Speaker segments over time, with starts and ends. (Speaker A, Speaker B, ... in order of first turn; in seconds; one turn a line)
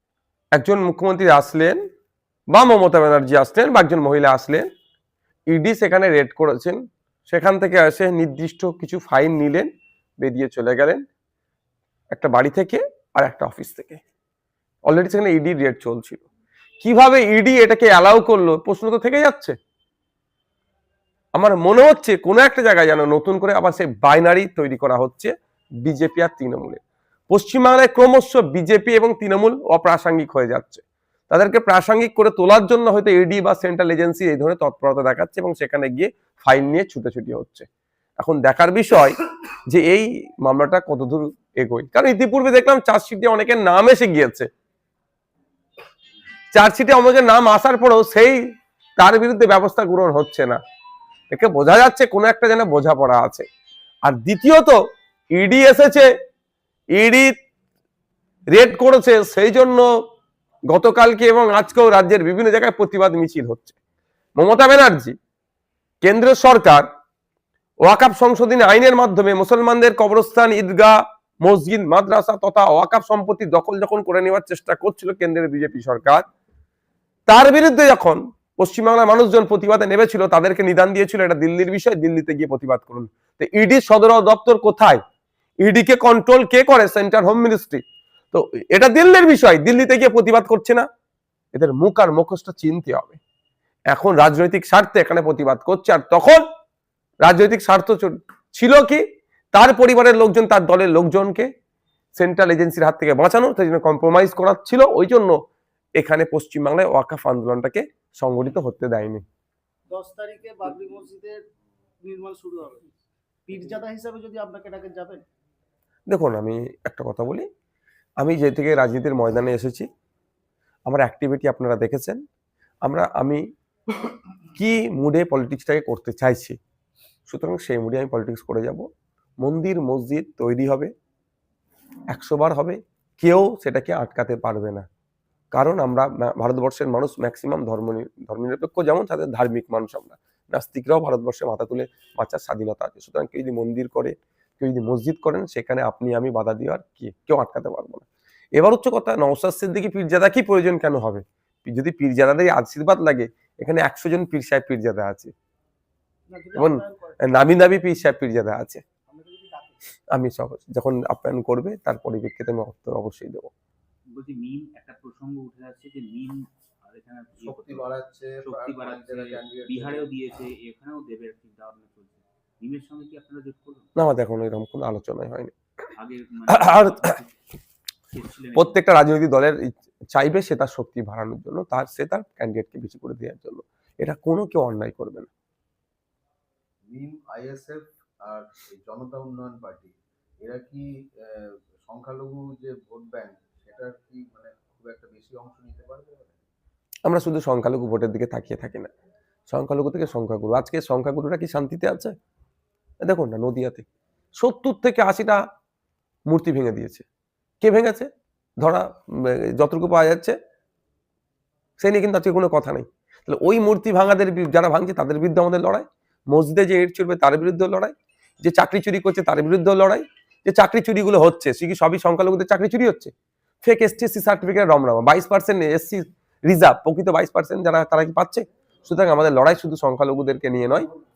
Speaker A: 0.6-1.8
Speaker A: 2.5-4.7
Speaker A: 5.5-9.7
Speaker A: 10.2-11.0
Speaker A: 12.1-14.0
Speaker A: 14.9-16.2
Speaker A: 16.8-19.6
Speaker A: 21.4-25.3
Speaker A: 25.8-37.7
Speaker A: 38.2-44.5
Speaker A: 46.5-48.4
Speaker A: 49.0-50.6
Speaker A: 51.3-53.5
Speaker A: 54.0-54.8
Speaker A: 55.4-56.1
Speaker A: 57.0-57.3
Speaker A: 58.5-59.9
Speaker A: 60.7-63.8
Speaker A: 64.4-65.2
Speaker A: 66.0-66.9
Speaker A: 67.8-76.2
Speaker A: 77.3-85.0
Speaker A: 85.6-90.9
Speaker A: 91.5-93.2
Speaker A: 93.9-96.4
Speaker A: 97.2-101.5
Speaker A: 102.2-105.4
Speaker A: 106.0-109.2
Speaker B: 109.9-111.4
Speaker B: 112.0-112.9
Speaker B: 113.5-115.2
Speaker A: 116.1-117.5
Speaker A: 118.2-119.9
Speaker A: 120.9-122.2
Speaker A: 122.8-123.4
Speaker A: 124.6-126.6
Speaker A: 127.3-128.9
Speaker A: 129.4-130.9
Speaker A: 132.1-134.9
Speaker A: 135.5-155.3
Speaker B: 156.3-157.4
Speaker A: 156.6-158.8
Speaker B: 159.1-159.9
Speaker A: 160.1-163.5
Speaker C: 164.1-167.9
Speaker D: 167.4-170.1
Speaker C: 168.4-173.9
Speaker A: 174.0-175.5
Speaker C: 176.0-177.3
Speaker A: 176.5-177.1
Speaker C: 178.1-178.8
Speaker A: 178.6-185.3
Speaker D: 186.9-196.4
Speaker A: 197.1-198.9
Speaker A: 199.5-202.2
Speaker A: 203.0-203.9
Speaker A: 204.4-205.4
Speaker A: 206.3-207.1
Speaker A: 207.6-208.1
Speaker A: 208.6-210.4
Speaker A: 211.8-223.1
Speaker A: 223.6-230.9